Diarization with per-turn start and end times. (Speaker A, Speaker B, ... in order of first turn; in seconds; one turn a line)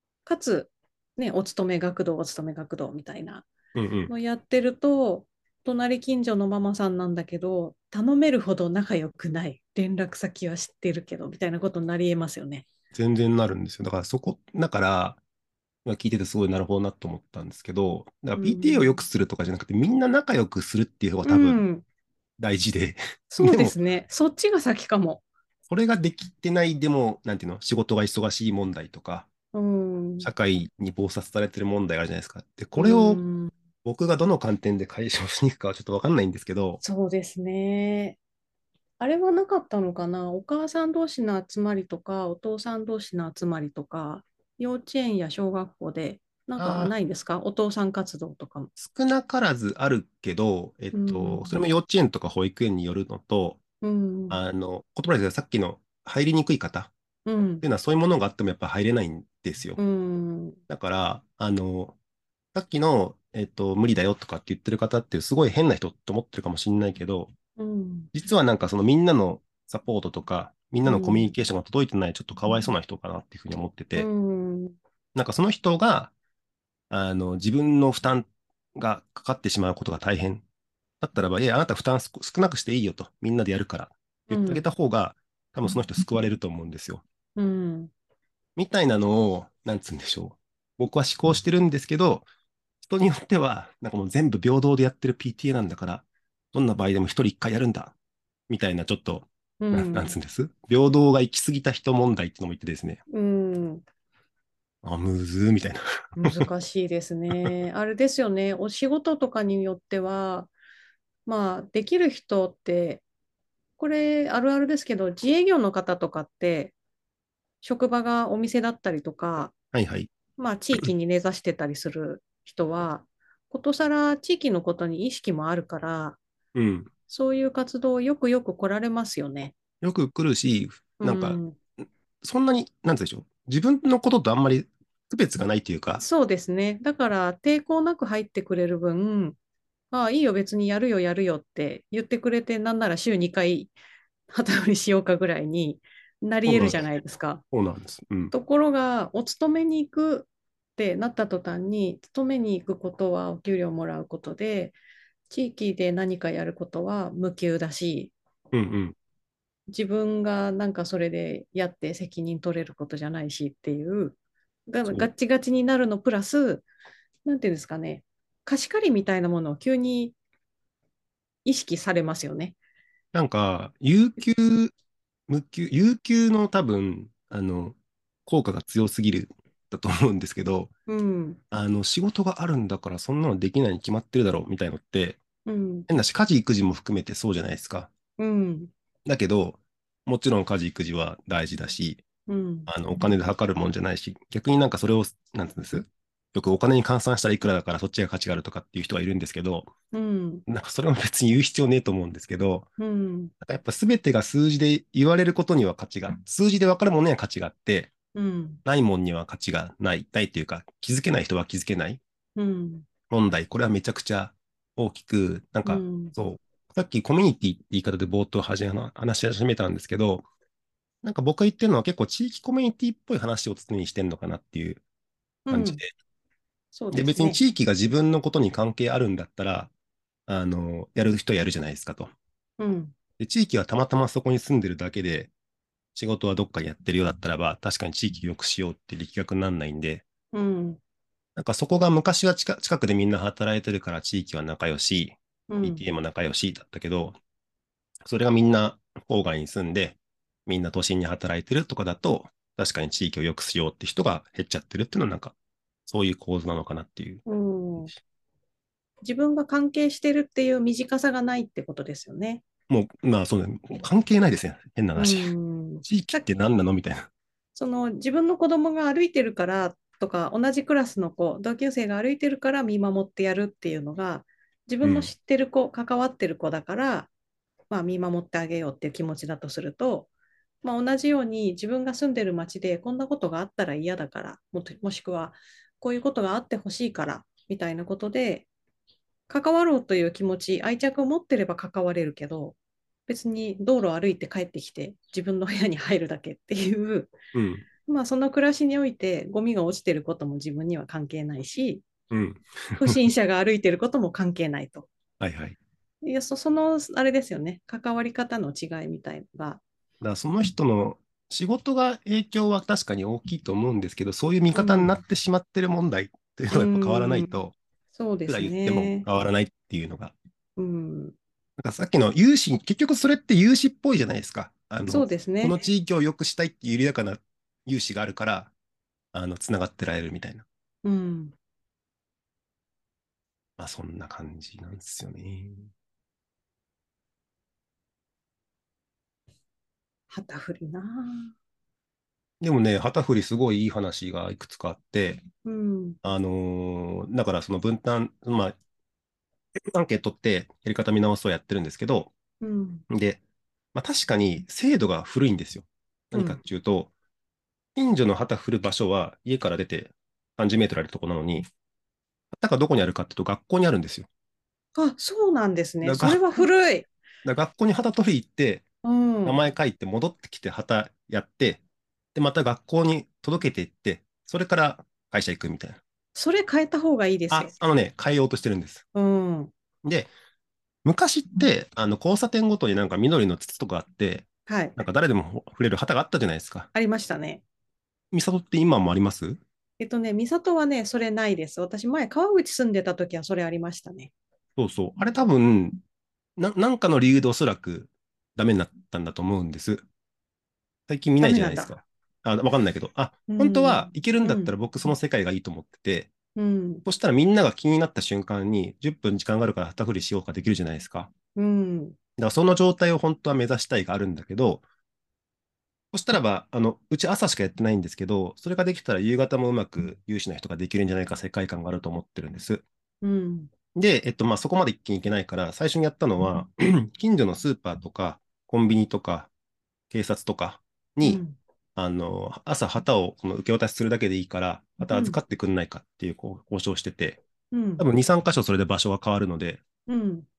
Speaker A: 0.3-3.5
Speaker B: 3.8-4.1
Speaker A: 4.1-12.7
Speaker B: 12.9-15.2
Speaker B: 15.8-21.6
Speaker A: 18.4-19.0
Speaker A: 21.2-21.8
Speaker B: 22.4-23.8
Speaker A: 23.3-25.2
Speaker B: 25.7-29.3
Speaker A: 29.5-30.3
Speaker B: 30.2-33.2
Speaker A: 32.8-33.5
Speaker B: 33.8-36.8
Speaker A: 36.8-38.2
Speaker A: 39.0-48.7
Speaker B: 46.6-46.9
Speaker B: 48.8-53.6
Speaker A: 50.9-51.5
Speaker A: 53.8-54.4
Speaker B: 54.3-56.9
Speaker A: 57.3-57.6
Speaker B: 57.6-59.8
Speaker A: 59.8-60.6
Speaker B: 60.7-62.0
Speaker B: 62.5-67.3
Speaker A: 67.6-68.1
Speaker B: 68.1-74.1
Speaker A: 70.8-71.3
Speaker A: 74.0-74.8
Speaker B: 75.2-76.1
Speaker B: 76.9-80.4
Speaker B: 81.0-87.0
Speaker A: 84.3-84.7
Speaker A: 87.4-87.9
Speaker B: 88.6-92.3
Speaker B: 92.8-98.0
Speaker B: 98.5-103.0
Speaker A: 99.6-100.2
Speaker A: 103.1-103.8
Speaker B: 104.8-106.5
Speaker A: 106.2-110.5
Speaker A: 111.3-113.0
Speaker A: 113.8-116.7
Speaker A: 117.6-119.5
Speaker B: 119.7-120.1
Speaker A: 120.4-126.2
Speaker B: 126.5-126.9
Speaker A: 127.1-129.5
Speaker B: 129.8-131.4
Speaker A: 131.0-131.6
Speaker B: 132.2-136.0
Speaker A: 136.0-139.4
Speaker A: 139.9-143.7
Speaker A: 144.3-147.4
Speaker B: 146.4-146.9
Speaker B: 147.5-148.3
Speaker A: 148.3-154.8
Speaker A: 155.3-158.1
Speaker B: 158.5-158.9
Speaker A: 159.7-164.2
Speaker A: 164.7-166.7
Speaker A: 167.3-170.2
Speaker A: 171.4-172.6
Speaker B: 173.1-174.7
Speaker B: 175.3-180.7
Speaker A: 180.9-181.4
Speaker B: 181.5-185.2
Speaker A: 185.5-185.9
Speaker B: 185.9-187.9
Speaker A: 188.2-188.7
Speaker B: 189.1-192.0
Speaker A: 192.3-192.7
Speaker B: 192.7-199.7
Speaker A: 199.9-200.4
Speaker B: 200.5-202.7
Speaker A: 202.8-203.3
Speaker B: 203.4-207.9
Speaker A: 208.2-208.6
Speaker B: 208.7-212.0
Speaker A: 212.4-212.9
Speaker B: 213.1-220.3
Speaker A: 215.7-216.2
Speaker B: 221.0-224.8
Speaker A: 225.5-225.8
Speaker B: 225.5-225.9
Speaker A: 226.7-227.4
Speaker B: 226.9-229.7
Speaker B: 230.3-232.1
Speaker A: 232.6-232.9
Speaker B: 233.2-235.3
Speaker B: 235.9-240.0
Speaker A: 240.3-240.8
Speaker B: 241.4-247.2
Speaker A: 245.5-245.8
Speaker B: 248.0-255.3
Speaker B: 255.9-257.2
Speaker A: 257.3-257.9
Speaker A: 259.0-262.4
Speaker B: 262.7-265.3
Speaker A: 265.0-266.2
Speaker B: 265.8-267.1
Speaker A: 267.6-277.1
Speaker B: 274.8-275.1
Speaker A: 277.7-280.1
Speaker A: 280.6-288.5
Speaker A: 289.3-292.6
Speaker A: 293.1-297.2
Speaker B: 297.3-297.7
Speaker A: 297.9-301.9
Speaker B: 302.1-303.0
Speaker A: 302.8-304.9
Speaker B: 305.2-305.6
Speaker A: 306.0-309.6
Speaker B: 310.0-317.6
Speaker A: 314.6-314.9
Speaker A: 316.5-317.4
Speaker A: 317.9-319.1
Speaker B: 318.3-320.1
Speaker A: 320.6-321.1
Speaker B: 321.6-328.5
Speaker A: 324.9-325.7
Speaker B: 329.1-330.4
Speaker A: 330.8-331.3
Speaker B: 333.6-335.7
Speaker A: 340.1-341.3
Speaker B: 342.4-345.2
Speaker A: 345.4-346.0
Speaker B: 346.0-348.6
Speaker B: 349.7-352.1
Speaker A: 352.4-352.8
Speaker B: 352.9-353.2
Speaker B: 353.7-356.9
Speaker A: 356.1-356.4
Speaker B: 357.8-361.5
Speaker B: 362.3-364.1
Speaker A: 364.8-366.9
Speaker B: 365.8-366.4
Speaker B: 367.2-368.7
Speaker A: 368.8-369.4
Speaker B: 369.2-371.6
Speaker B: 372.1-375.8
Speaker A: 376.1-377.5
Speaker B: 377.3-378.8
Speaker A: 378.9-379.5
Speaker B: 379.8-380.1
Speaker B: 380.8-386.7
Speaker A: 384.5-384.8
Speaker A: 386.8-387.4
Speaker B: 388.1-389.4
Speaker A: 389.8-394.1
Speaker B: 394.6-395.8
Speaker B: 396.4-399.9
Speaker B: 400.9-406.1
Speaker A: 401.2-401.7
Speaker A: 403.3-404.6
Speaker A: 406.4-406.9
Speaker B: 406.9-411.1
Speaker A: 411.4-412.0
Speaker B: 412.2-414.6
Speaker B: 415.9-422.6
Speaker A: 423.0-423.5
Speaker B: 423.8-429.3
Speaker B: 429.9-431.2
Speaker A: 431.0-431.4
Speaker B: 431.8-437.2
Speaker A: 434.9-435.2
Speaker A: 437.5-437.8
Speaker B: 437.8-439.6
Speaker A: 439.9-440.3